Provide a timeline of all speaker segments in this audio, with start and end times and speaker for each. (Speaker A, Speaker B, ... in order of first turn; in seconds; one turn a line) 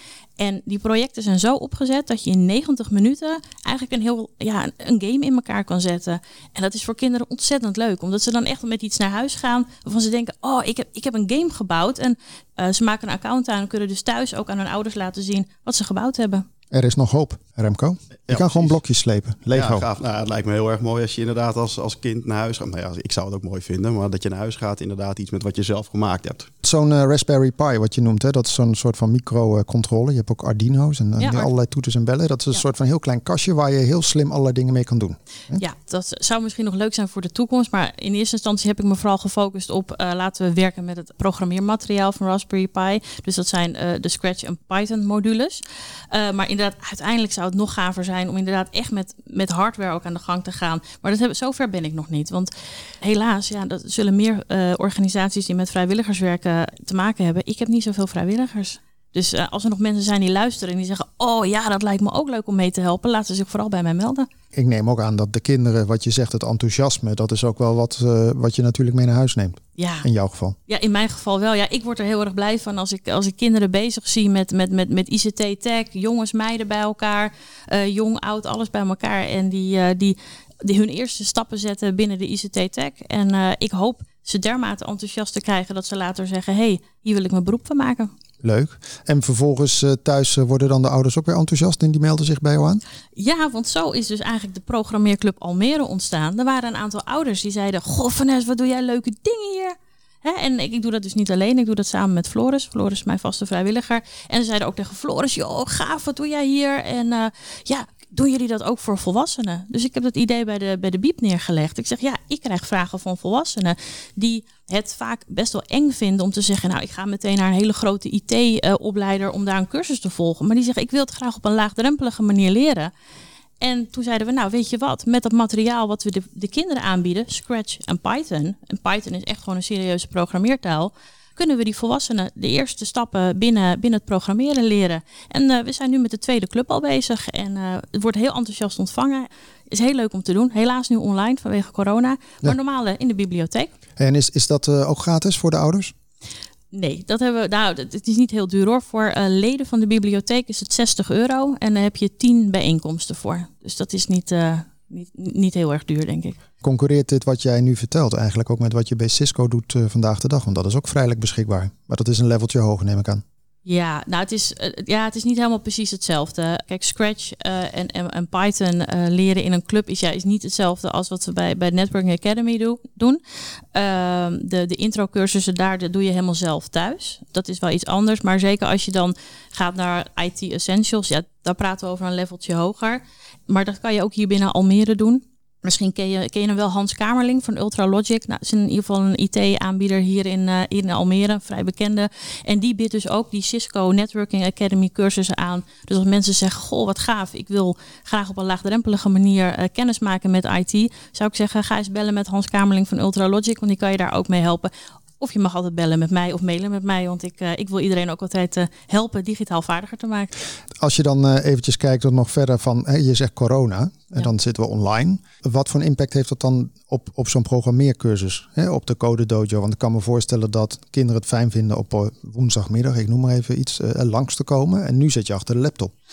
Speaker A: 0.4-16.4
Speaker B: 16.7-19.9
Speaker C: 18.3-18.8
Speaker C: 19.5-26.5
Speaker B: 26.6-35.6
Speaker A: 31.2-31.5
Speaker A: 35.6-64.3
Speaker B: 64.5-70.6
Speaker A: 69.8-70.1
Speaker A: 70.7-88.1
Speaker B: 88.4-92.8
Speaker A: 93.2-122.9
Speaker A: 123.6-143.7
Speaker B: 144.0-145.9
Speaker A: 146.7-156.4
Speaker B: 156.6-163.2
Speaker A: 163.7-173.2
Speaker A: 173.7-210.3
Speaker B: 210.8-225.9